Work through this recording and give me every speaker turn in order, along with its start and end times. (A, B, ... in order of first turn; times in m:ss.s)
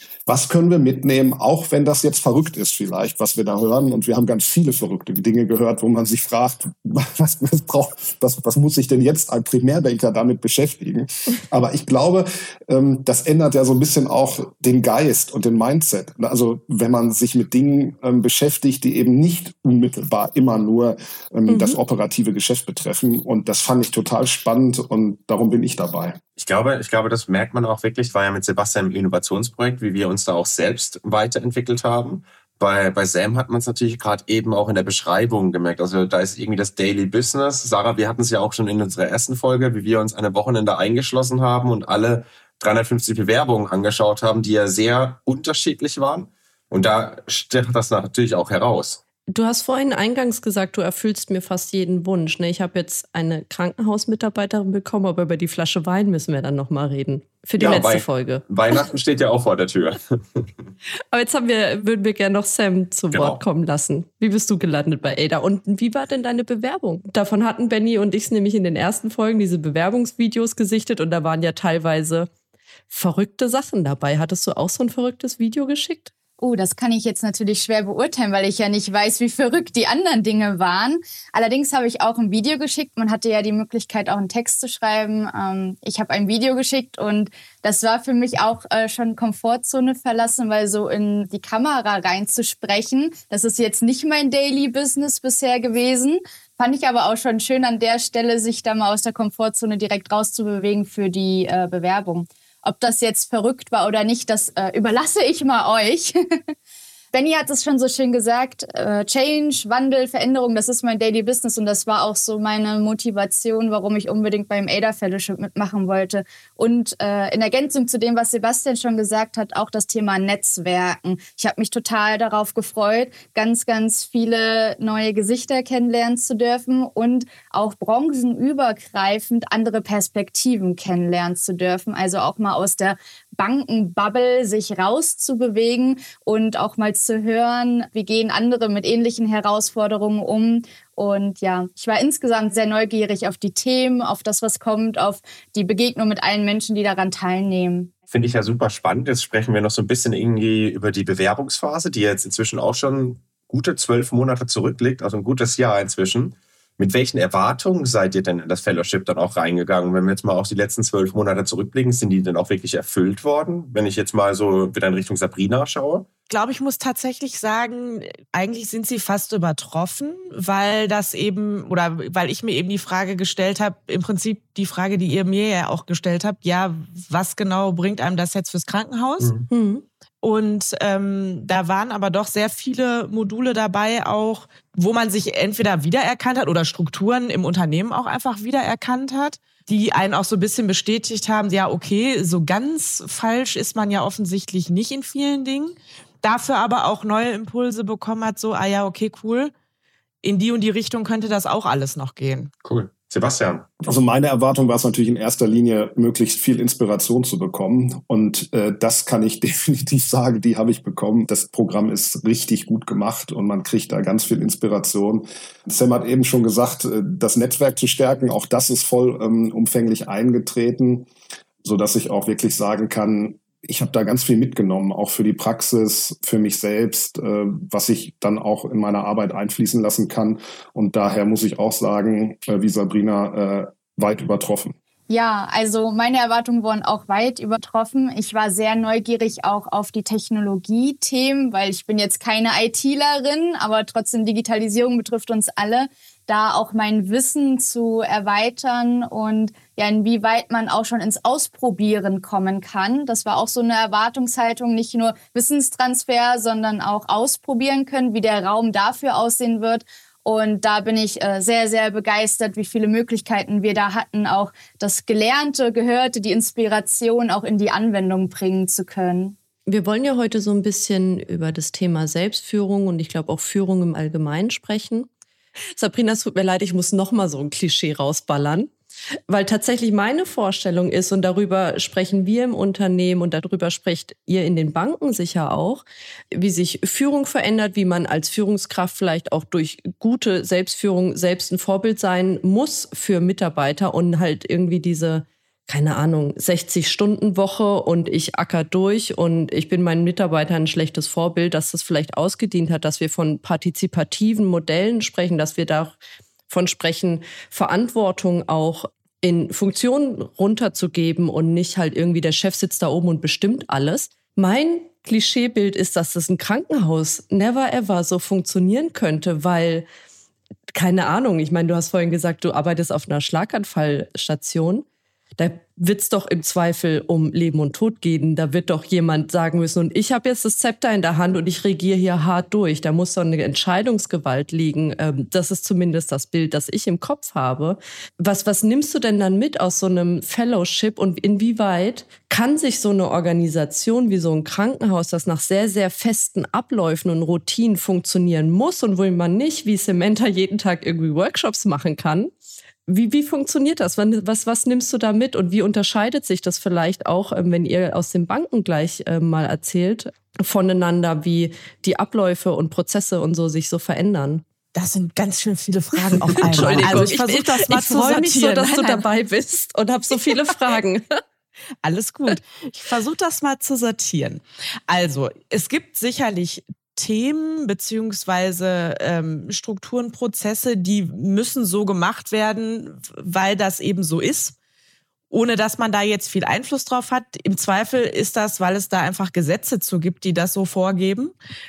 0:00.3-0:26.2 A
0:21.5-0:21.8 B
0:26.4-0:49.0 C
0:49.3-0:58.4 B
0:57.6-1:00.5 C
1:01.1-1:12.3 B
1:03.1-1:03.4 C
1:12.9-1:16.1 B
1:16.4-1:46.2 D
1:47.1-2:27.9 D
2:28.1-2:46.1 C
2:46.3-2:59.3 E
2:59.2-2:59.4 C
2:59.5-2:59.8 B
3:00.2-3:19.5 E
3:20.2-3:22.5 E
3:22.6-3:23.7 C
3:23.8-3:41.1 A
3:41.6-3:54.8 A
3:55.1-4:29.3 D
4:29.7-4:35.1 B
4:35.8-4:38.7 B
4:39.3-5:06.0 B
5:06.5-5:19.8 B
5:20.7-5:24.8 B
5:25.4-5:52.3 B
5:52.9-6:04.4 B
6:04.7-6:09.0 E
6:06.4-6:11.2 B
6:11.8-6:24.6 E
6:25.3-6:31.3 E